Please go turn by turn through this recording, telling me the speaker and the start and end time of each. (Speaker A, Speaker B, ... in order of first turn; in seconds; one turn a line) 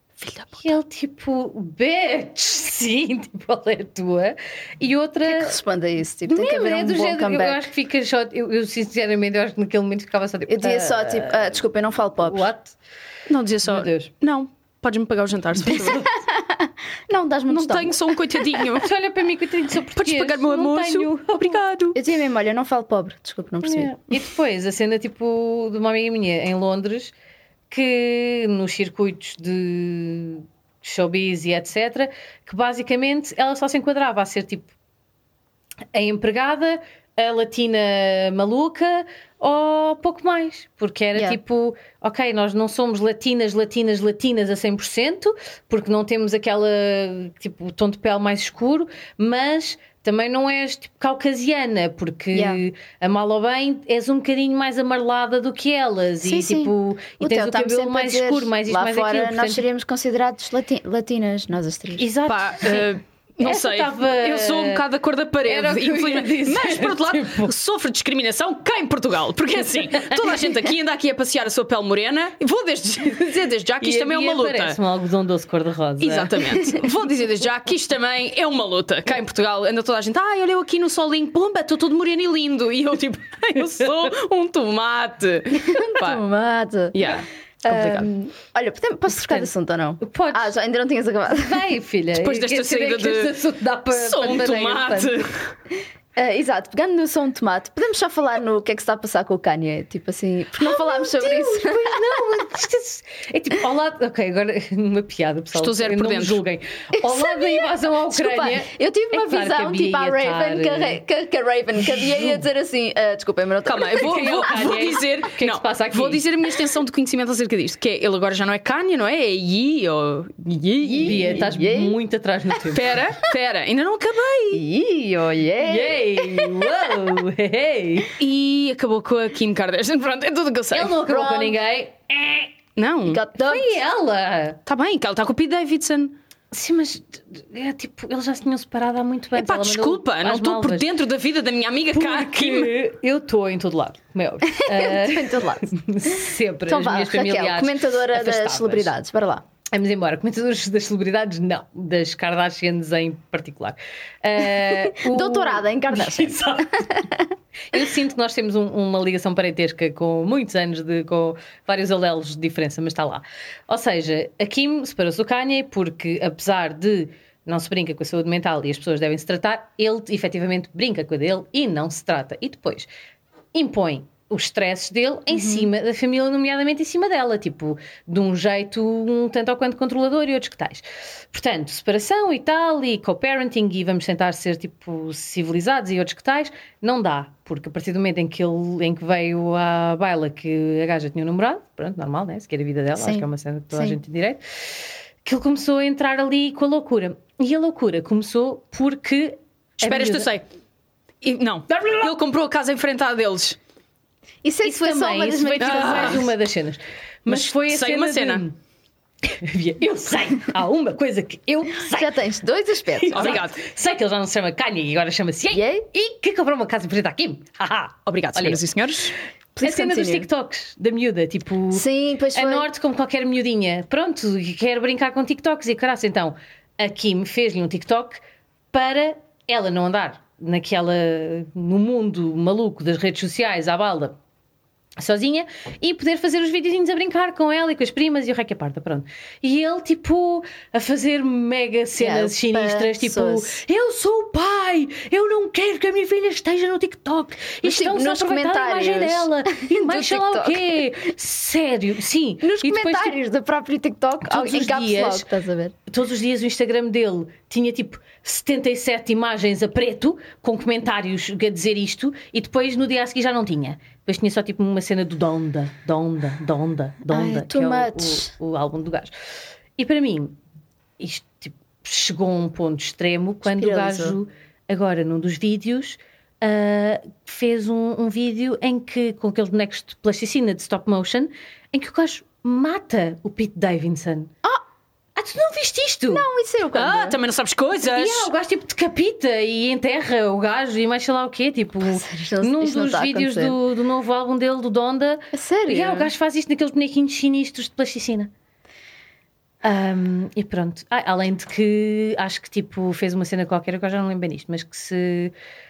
Speaker A: 0.2-0.6
Speaker B: 0.6-5.6
Speaker C: 5.2-7.7
Speaker B: 6.3-11.6
Speaker C: 10.5-12.5
Speaker B: 12.2-12.7
Speaker A: 13.3-16.1
Speaker B: 13.6-14.1
Speaker B: 15.7-16.1
Speaker C: 15.7-18.6
Speaker A: 17.5-18.9
Speaker B: 18.7-21.6
Speaker A: 19.9-22.0
Speaker C: 21.9-23.9
Speaker B: 23.6-27.1
Speaker B: 27.7-34.7
Speaker B: 35.9-59.6
Speaker C: 52.3-52.6
Speaker C: 56.2-62.1
Speaker B: 62.0-64.8
Speaker A: 62.2-74.8
Speaker B: 65.4-67.5
Speaker B: 70.0-70.3
Speaker B: 73.8-76.5
Speaker A: 76.0-86.2
Speaker C: 85.5-91.6
Speaker A: 86.9-88.1
Speaker B: 89.1-89.5
Speaker B: 90.0-90.5
Speaker B: 91.3-95.1
Speaker A: 92.1-93.3
Speaker A: 93.9-95.5
Speaker C: 96.2-102.2
Speaker B: 100.6-111.0
Speaker A: 105.5-106.4
Speaker C: 106.9-114.3
Speaker B: 111.8-112.4
Speaker A: 113.6-121.4
Speaker B: 113.9-116.2
Speaker C: 120.8-121.9
Speaker B: 121.0-123.0
Speaker A: 122.7-124.6
Speaker C: 124.5-126.8
Speaker B: 125.6-128.1
Speaker A: 128.2-131.0
Speaker B: 130.7-132.6
Speaker C: 131.1-131.6
Speaker A: 132.8-133.2
Speaker C: 133.0-133.8
Speaker B: 133.4-134.6
Speaker A: 134.7-136.2
Speaker B: 136.5-140.9
Speaker A: 139.3-142.7
Speaker B: 141.9-148.9
Speaker C: 144.5-149.4
Speaker B: 149.7-157.0
Speaker C: 154.7-157.3
Speaker B: 157.7-172.9
Speaker B: 173.5-194.4
Speaker C: 175.3-175.7
Speaker C: 192.9-194.0
Speaker B: 195.2-200.3
Speaker A: 199.8-200.5
Speaker A: 201.2-203.6
Speaker B: 201.7-202.1
Speaker C: 204.4-206.3
Speaker B: 204.6-208.5
Speaker A: 205.6-206.3
Speaker A: 207.2-208.4
Speaker B: 209.2-212.2
Speaker C: 211.9-213.4
Speaker B: 212.9-218.6
Speaker A: 213.1-213.6
Speaker C: 215.5-215.8
Speaker A: 218.1-219.1
Speaker C: 219.6-220.2
Speaker B: 219.6-228.2
Speaker C: 221.7-222.7
Speaker B: 228.7-234.2
Speaker B: 235.0-253.2
Speaker C: 242.0-243.6
Speaker C: 247.6-250.8
Speaker C: 252.4-255.7
Speaker B: 254.2-255.3
Speaker B: 255.9-269.1
Speaker C: 267.1-268.3
Speaker B: 269.8-270.4
Speaker B: 271.0-284.3
Speaker C: 273.5-274.1
Speaker B: 285.1-286.2
Speaker C: 286.1-287.2
Speaker A: 286.7-288.3
Speaker B: 287.8-298.3
Speaker C: 291.8-293.5
Speaker C: 295.3-296.1
Speaker B: 299.6-305.3